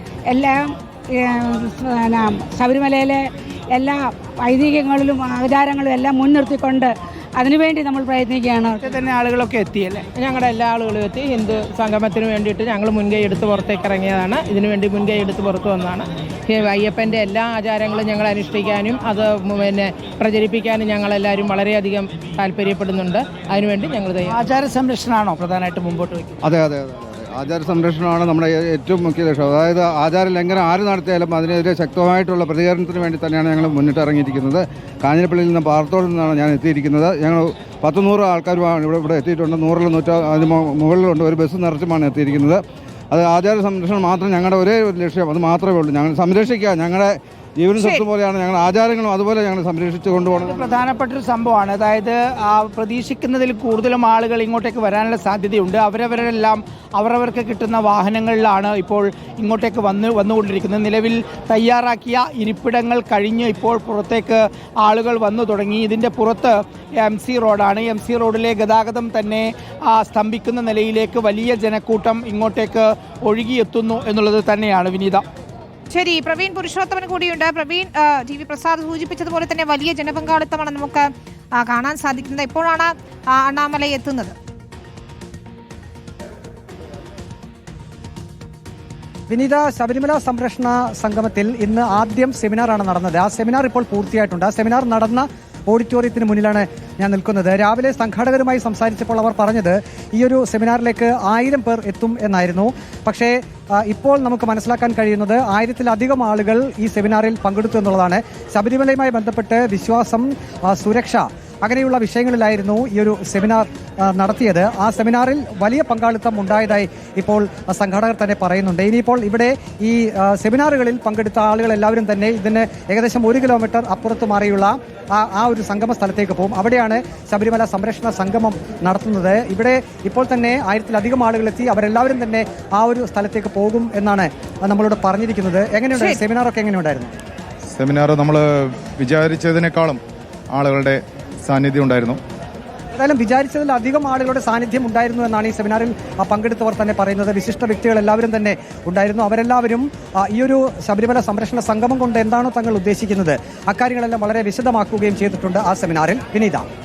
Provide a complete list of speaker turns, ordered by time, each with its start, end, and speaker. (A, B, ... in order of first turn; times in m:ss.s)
0:00.3-0:08.8 A
0:08.8-0:10.0 B
0:10.2-0:24.4 C
0:24.3-0:26.4 B
0:26.4-0:50.6 D
0:50.3-1:15.2 B
1:15.9-1:24.3 E
1:29.3-2:17.1 F
2:15.9-2:16.2 E
2:17.8-2:20.0 G
2:20.5-2:22.2 G
2:23.0-2:36.6 F